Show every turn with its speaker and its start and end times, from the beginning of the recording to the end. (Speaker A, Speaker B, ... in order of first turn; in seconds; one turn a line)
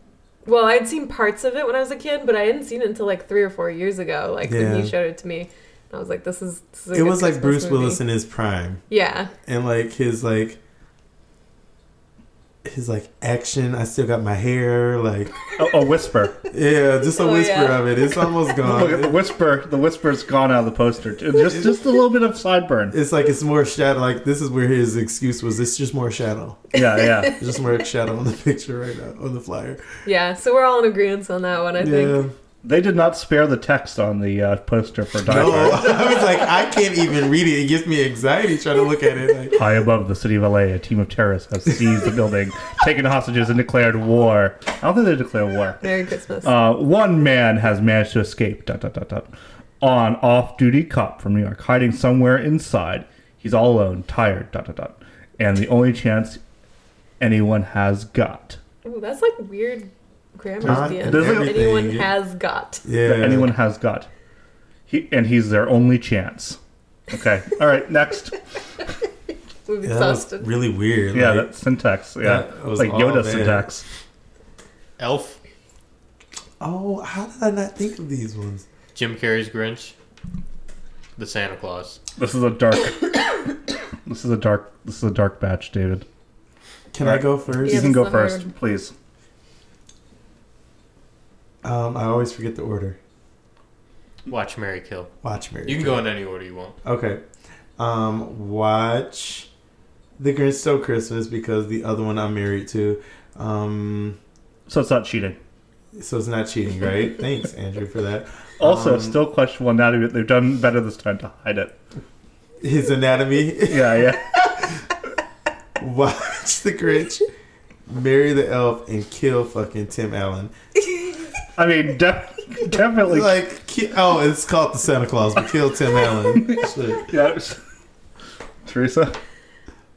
Speaker A: 0.4-8.0
Speaker B: 4.4-4.9
Speaker B: 6.9-8.8
Speaker A: 8.9-9.3
Speaker B: 9.4-10.6
Speaker B: 12.6-15.4
Speaker C: 15.6-16.4
Speaker B: 16.5-19.2
Speaker A: 17.1-18.5
Speaker C: 18.6-22.9
Speaker B: 21.5-21.8
Speaker B: 22.9-26.7
Speaker C: 26.7-27.4
Speaker A: 27.0-27.3
Speaker B: 27.3-29.9
Speaker A: 30.0-32.2
Speaker B: 31.8-32.3
Speaker C: 32.6-36.0
Speaker B: 35.2-39.6
Speaker C: 39.5-45.8
Speaker A: 45.8-46.5
Speaker C: 46.4-56.4
Speaker C: 57.2-58.6
Speaker A: 58.8-62.8
Speaker B: 60.6-62.1
Speaker C: 60.6-61.6
Speaker B: 62.8-63.5
Speaker C: 63.0-64.1
Speaker C: 64.9-66.6
Speaker C: 67.1-68.4
Speaker A: 69.7-70.5
Speaker B: 69.8-71.5
Speaker C: 71.1-73.8
Speaker B: 72.2-73.7
Speaker D: 75.0-75.4
Speaker B: 76.6-78.6
Speaker D: 78.9-79.9
Speaker D: 81.2-82.0
Speaker C: 82.2-83.5
Speaker C: 84.0-86.0
Speaker B: 86.9-87.9
Speaker C: 87.0-88.9
Speaker A: 87.6-88.5
Speaker B: 91.6-93.0
Speaker D: 94.3-95.1
Speaker B: 95.2-96.0
Speaker D: 95.6-96.8
Speaker B: 96.8-97.2
Speaker B: 97.8-99.5
Speaker B: 100.2-104.2
Speaker C: 104.7-105.4
Speaker B: 105.9-109.2
Speaker C: 108.6-111.7
Speaker B: 112.6-114.8
Speaker C: 113.7-114.4
Speaker B: 115.8-117.3
Speaker B: 117.8-120.5
Speaker C: 121.5-123.4
Speaker B: 123.0-127.0
Speaker C: 126.3-127.6
Speaker C: 128.6-129.2